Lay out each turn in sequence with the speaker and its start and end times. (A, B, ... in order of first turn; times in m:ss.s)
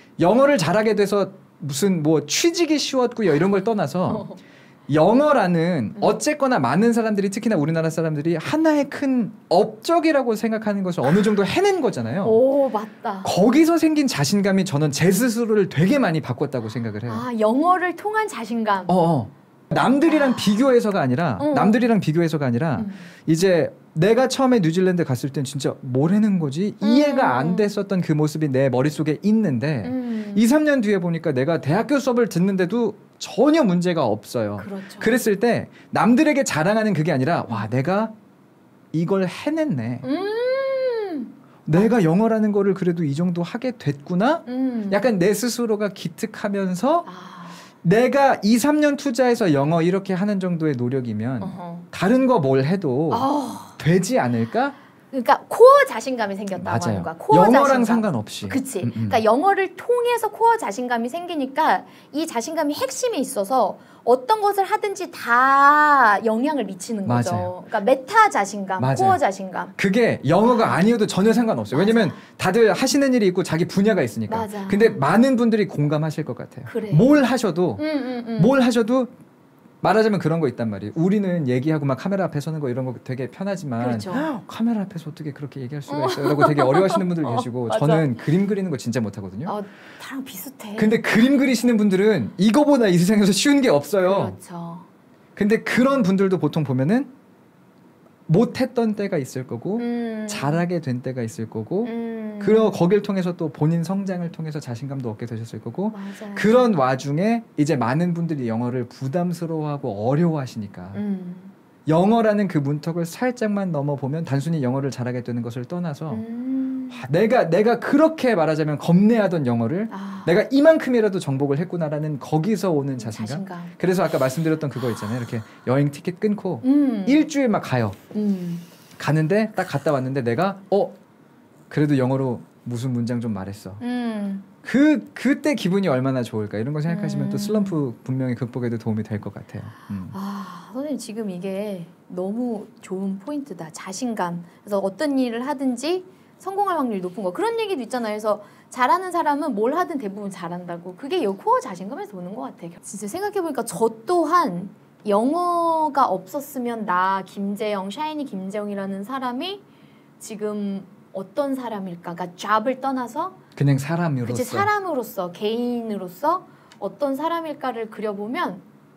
0:00.2-0:04.3 A
0:04.1-0:04.4 B
0:04.9-0:12.4 A
0:12.2-0:13.3 B
0:13.2-0:17.2 A
0:17.1-0:19.0 B
0:18.9-0:38.1 A
0:20.0-0:20.7 B
0:21.4-0:21.9 B
0:22.8-0:23.1 B
0:26.8-0:27.7 B
0:29.8-0:30.4 B
0:34.6-0:35.2 B
0:38.9-0:40.0 A
0:40.0-0:41.9 B
0:41.7-0:47.1 A
0:44.4-0:45.1 B
0:47.1-0:47.6 B
0:47.8-0:54.8 A
0:51.4-0:51.9 B
0:53.1-0:53.8 B
0:55.1-1:09.7 B
0:56.6-0:59.2 A
1:07.1-1:07.5 A
1:08.8-1:09.2 A
1:09.8-1:17.8 A
1:10.4-1:10.9 B
1:11.7-1:12.2 B
1:14.3-1:15.0 B
1:16.7-1:17.1 B
1:17.8-1:18.5 B
1:18.4-1:19.1 A
1:19.8-1:29.6 A
1:23.8-1:24.3 B
1:25.9-1:28.1 B
1:29.4-1:31.4 B
1:30.8-1:34.4 A
1:34.0-1:34.9 B
1:35.4-1:37.1 A
1:38.3-1:51.0 A
1:39.8-1:40.6 B
1:41.8-1:42.8 B
1:45.9-1:46.6 B
1:50.9-1:51.5 B
1:51.9-1:56.2 A
1:56.1-1:57.0 B
1:56.9-2:08.0 A
1:59.9-2:00.4 B
2:03.0-2:03.7 B
2:06.6-2:07.3 B
2:08.1-2:08.6 B
2:09.0-2:11.0 A
2:11.7-2:13.8 A
2:13.8-2:14.4 B
2:14.6-2:20.1 A
2:16.8-2:17.8 B
2:20.1-2:39.6 B
2:40.2-2:43.4 B
2:43.6-2:44.7 A
2:44.2-2:48.6 B